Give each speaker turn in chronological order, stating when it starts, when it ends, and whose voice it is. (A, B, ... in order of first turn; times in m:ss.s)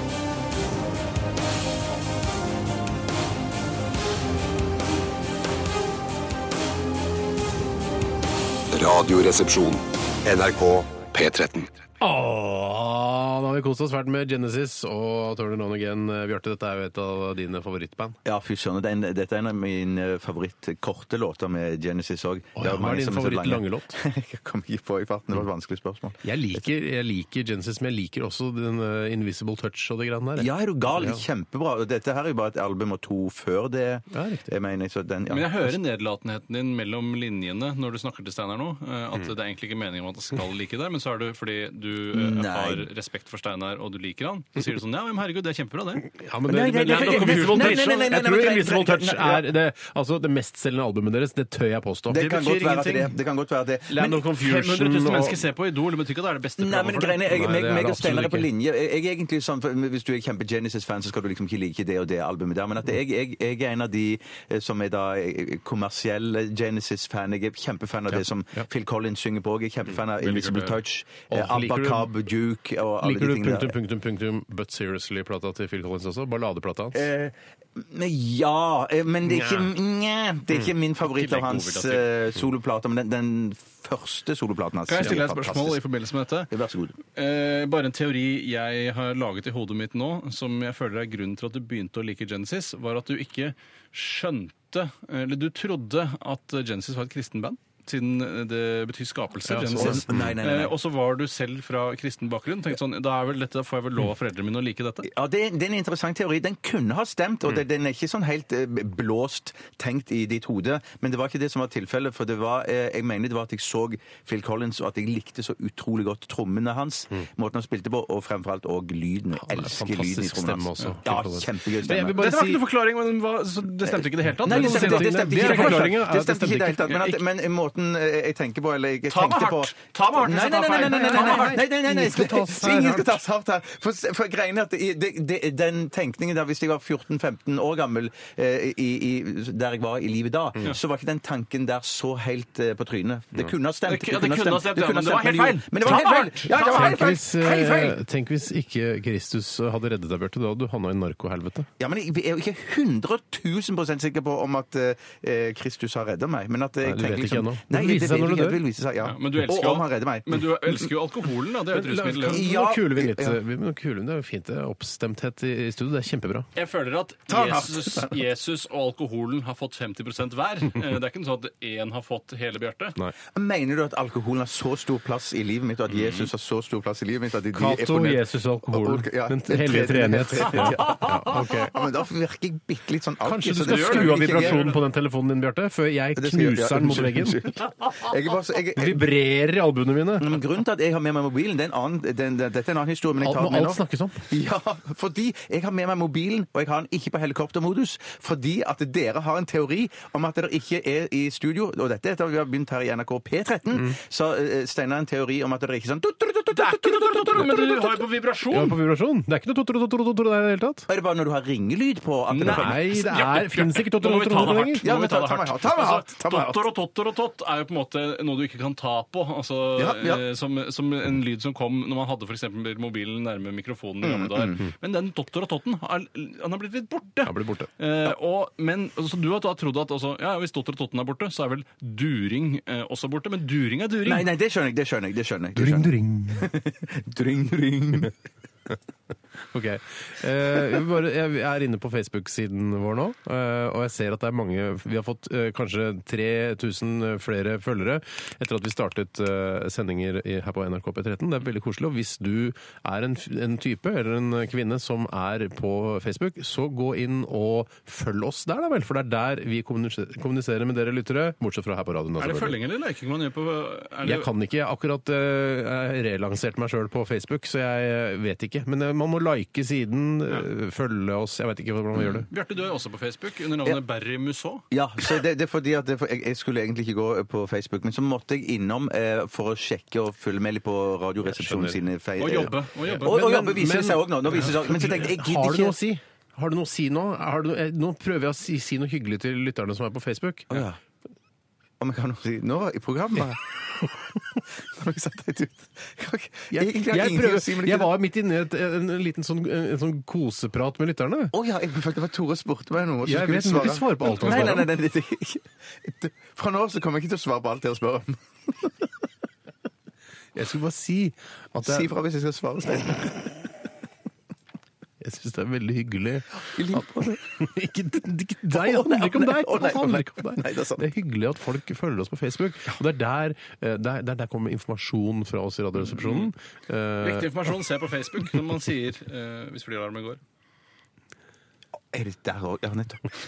0:08.7-0:11.7 A
0:12.0-0:18.2 B
0:18.2-0:26.6 C
0:22.6-0:24.0 B
0:26.2-0:31.2 B
0:30.4-0:35.8 C
0:34.1-0:34.5 B
0:35.3-0:46.1 D
0:42.1-0:42.9 C
0:46.1-0:52.4 B
0:46.5-0:49.4 C
0:46.7-0:48.1 D
0:52.1-0:54.3 C
0:52.2-0:53.2 D
0:53.9-0:55.4 B
0:54.3-0:57.2 D
0:56.6-1:13.7 C
0:57.3-0:58.5 B
1:08.1-1:08.6 B
1:10.2-1:10.8 D
1:11.3-1:12.1 B
1:13.0-1:17.1 B
1:16.9-1:25.8 C
1:19.2-1:19.7 B
1:21.2-1:22.0 D
1:24.9-1:26.5 D
1:26.5-1:27.0 C
1:27.2-1:45.0 D
1:39.4-1:40.3 B
1:39.6-1:40.7 C
1:45.0-2:02.2 C
1:59.3-2:02.6 B
2:02.2-2:05.9 D
2:03.8-2:27.9 C
2:04.4-2:07.0 B
2:06.9-2:07.2 D
2:09.1-2:11.6 D
2:10.7-2:13.2 B
2:23.9-2:27.1 D
2:26.5-2:31.7 B
2:31.8-2:40.9 C
2:36.8-2:38.6 B
2:39.0-2:42.5 D
2:41.7-2:46.5 B
2:42.3-2:43.4 C
2:46.6-2:52.9 D
2:47.3-2:48.2 C
2:53.3-3:04.7 C
2:55.9-2:56.3 D
2:57.5-3:01.8 B
3:03.2-3:07.4 B
3:03.6-3:04.8 D
3:06.2-3:09.1 C
3:08.8-3:10.4 B
3:10.2-3:28.0 C
3:13.2-3:14.3 B
3:26.5-3:28.8 D
3:28.5-3:30.9 B
3:30.9-3:32.9 C
3:32.3-3:54.3 D
3:32.4-3:34.8 B
3:34.8-3:36.6 C
3:39.8-3:40.2 C
3:44.0-3:44.6 C
3:47.2-3:47.7 B
3:54.0-3:58.1 C
3:55.5-3:56.5 B
3:59.5-4:22.6 B
4:22.2-4:24.2 D
4:24.0-4:32.3 B
4:32.3-4:34.6 D
4:34.7-4:45.7 C
4:41.2-4:41.8 B
4:42.2-4:43.4 D
4:42.9-4:50.6 B
4:50.5-4:50.8 C
4:51.8-4:53.9 C
4:54.6-4:57.9 C
4:56.5-5:01.3 B
5:01.3-5:08.9 C
5:03.0-5:04.7 B
5:10.3-5:11.9 B
5:11.6-5:13.3 C
5:15.0-5:27.5 B
5:16.5-5:17.2 C
5:18.5-5:20.8 C
5:25.9-5:26.3 D
5:27.0-5:30.2 D
5:31.9-5:33.2 C